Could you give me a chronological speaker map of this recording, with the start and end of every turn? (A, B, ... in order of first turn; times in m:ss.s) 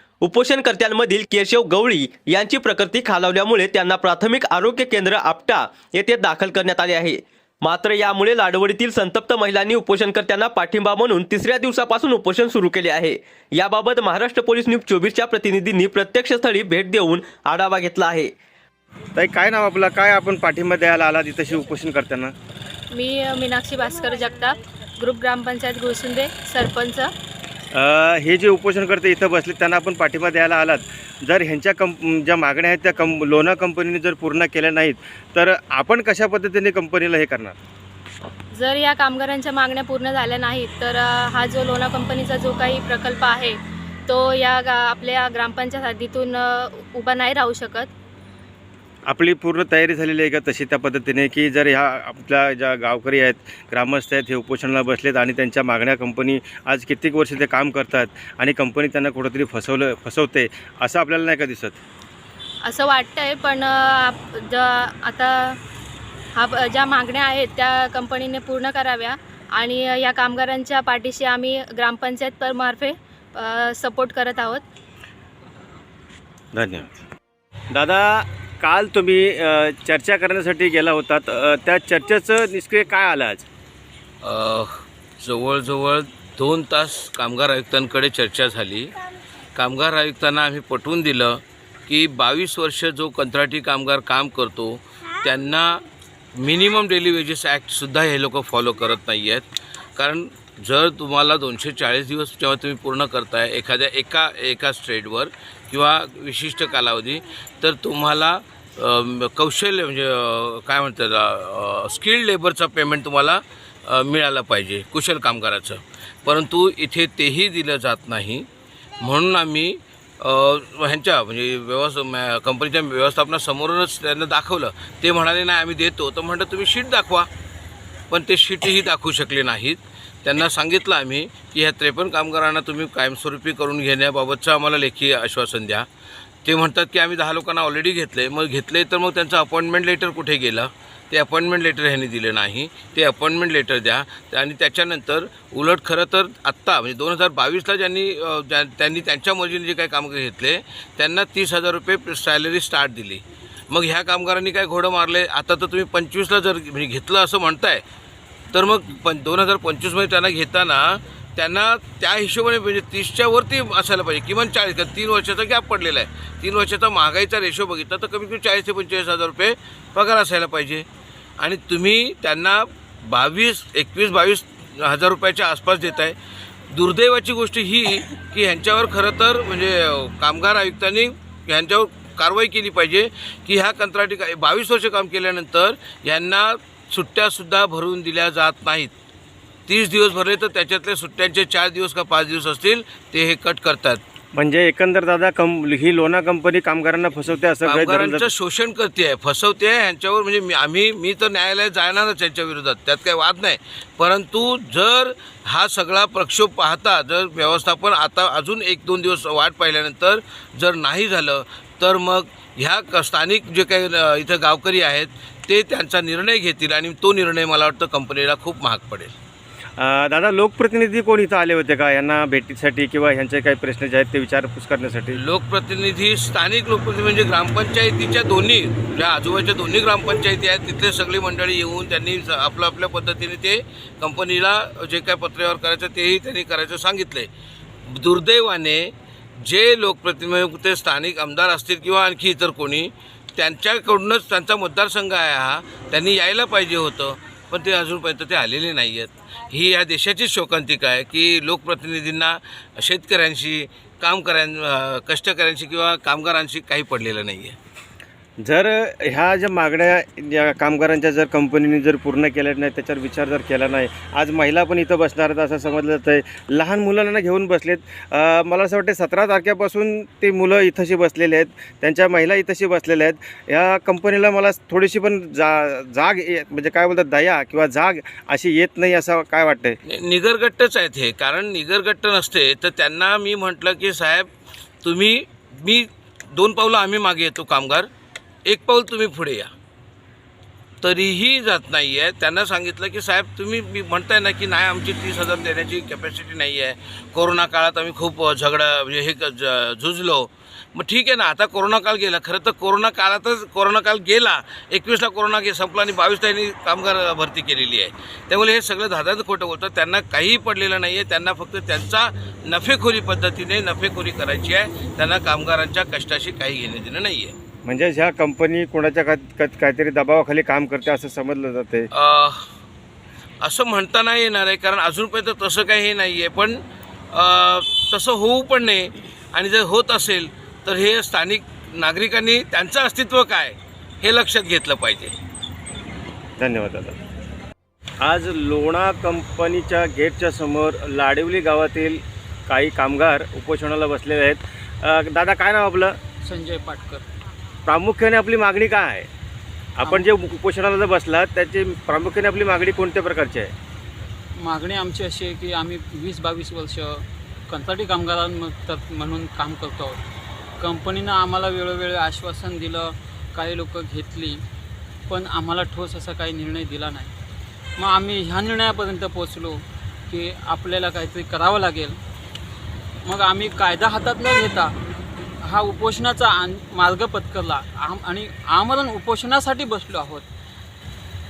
0:00.2-0:18.3 A
0:19.1-0:22.3 B
0:22.9-0:27.1 C
0:27.7-0:37.6 B
0:38.5-0:47.9 C
0:49.1-1:01.8 B
1:02.6-1:05.6 C
1:06.3-1:14.6 C
1:16.5-1:16.9 B
1:17.7-1:23.4 B
1:24.2-1:24.7 D
1:25.2-1:28.9 D
1:29.6-1:35.8 D
1:36.4-1:39.4 D
1:40.0-1:58.5 D
1:59.0-2:07.3 D
2:08.1-2:15.8 D
2:16.4-2:37.8 D
2:38.5-2:50.8 D
2:51.4-2:56.2 D
2:56.7-3:08.9 D
3:09.7-3:14.0 D
3:14.3-3:18.3 B
3:17.6-3:39.1 D
3:39.8-3:45.2 B
3:45.2-3:57.3 D
3:57.9-3:58.9 D
3:59.4-4:17.6 D
4:18.4-4:39.8 B
4:39.9-4:44.3 D
4:44.8-4:47.9 D
4:48.4-4:49.5 D
4:50.8-5:17.3 D
5:17.6-5:21.9 B
5:21.9-5:22.4 D
5:23.4-5:26.6 D
5:27.1-5:35.1 D
5:36.4-5:37.0 B
5:38.0-5:46.0 B
5:46.2-5:47.0 E
5:47.6-5:49.1 B
5:49.8-5:53.5 B
5:54.4-6:00.0 E
6:00.6-6:04.4 E
6:05.1-6:07.1 E
6:07.8-6:12.0 E
6:13.0-6:14.7 E
6:15.4-6:20.2 E